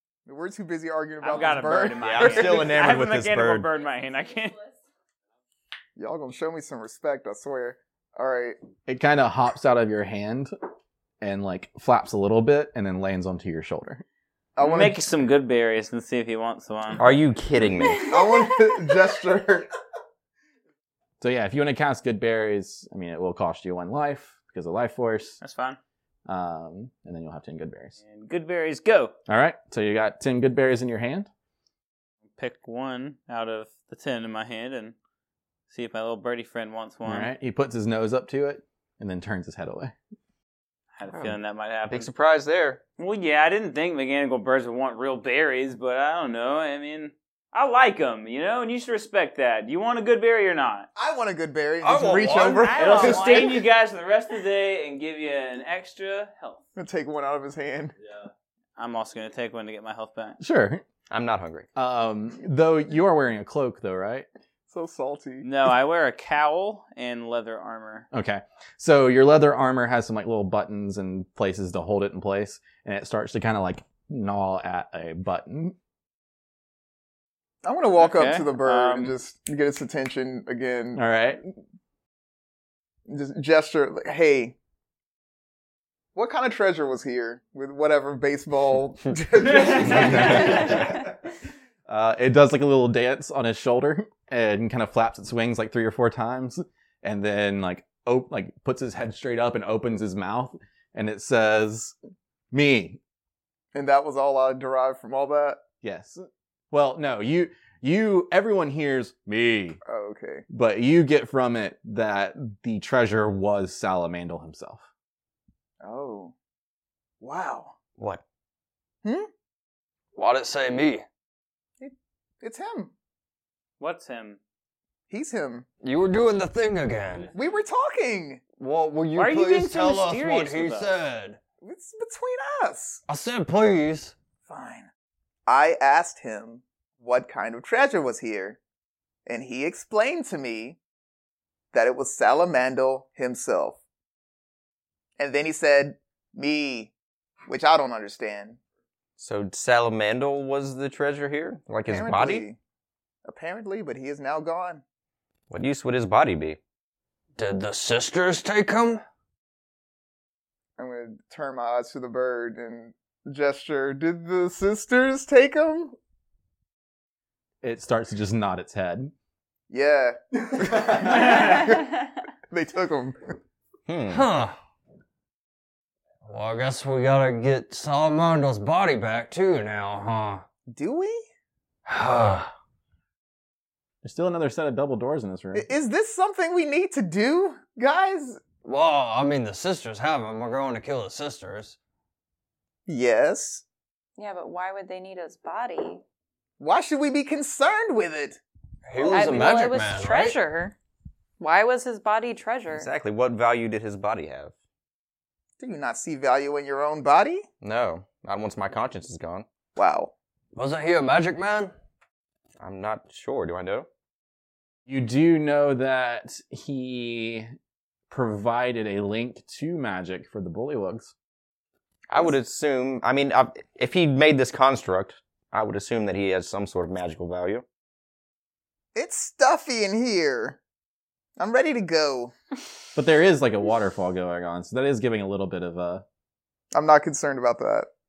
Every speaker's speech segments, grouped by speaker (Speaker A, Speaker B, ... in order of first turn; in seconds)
Speaker A: 0.3-2.7, 6.0-8.6, 14.6-15.1, 18.1-19.7, 51.0-53.5, 56.8-58.0, 64.7-65.5, 77.6-81.0, 83.1-84.6, 86.2-91.0, 103.7-105.6, 109.9-110.5, 115.8-116.3, 117.2-117.7, 119.0-119.3, 121.8-122.9, 125.1-125.7, 127.3-128.4, 131.6-133.0, 134.5-134.9, 135.5-138.6, 139.3-140.8, 141.7-143.8, 145.2-146.9, 147.5-148.6, 151.9-152.6, 153.2-154.8, 160.8-166.0, 169.7-173.4, 180.7-181.2, 185.5-188.4, 192.9-193.6, 196.6-198.4, 205.6-207.5, 209.8-210.1, 228.9-230.6, 231.4-232.3, 236.7-237.9
Speaker B: 1.2-4.6, 14.6-17.0, 25.4-25.8, 28.0-29.2, 32.4-35.0, 35.7-37.3, 41.0-42.1, 43.0-50.9, 52.7-56.6, 58.8-60.4, 65.4-68.1, 78.0-79.2, 123.8-124.4, 129.2-130.9
Speaker C: 2.0-3.7, 17.0-18.1, 41.1-42.8, 61.1-61.7, 149.2-152.5, 155.5-156.6, 173.9-174.2, 202.7-204.5, 207.6-209.5, 212.6-213.9, 222.1-227.7
Speaker D: 8.9-10.5, 11.2-14.1, 21.2-25.4, 26.3-28.0, 29.3-31.3, 37.0-40.0, 60.4-60.8, 61.8-64.3, 68.1-75.8, 81.0-81.4, 89.8-91.0, 91.9-102.0, 102.5-103.0, 105.8-109.8, 110.5-114.9, 167.6-169.1, 184.0-185.7, 214.9-217.5, 218.1-221.1, 233.0-236.0
Speaker E: 17.9-18.4, 194.2-196.0, 199.0-200.8, 201.4-202.9
Speaker F: 51.8-53.4, 120.2-121.0, 125.8-127.3, 128.6-131.4, 133.1-134.2, 157.4-159.0, 174.1-174.6, 176.2-180.4, 181.9-182.5, 188.6-191.8, 198.9-200.4, 210.5-211.7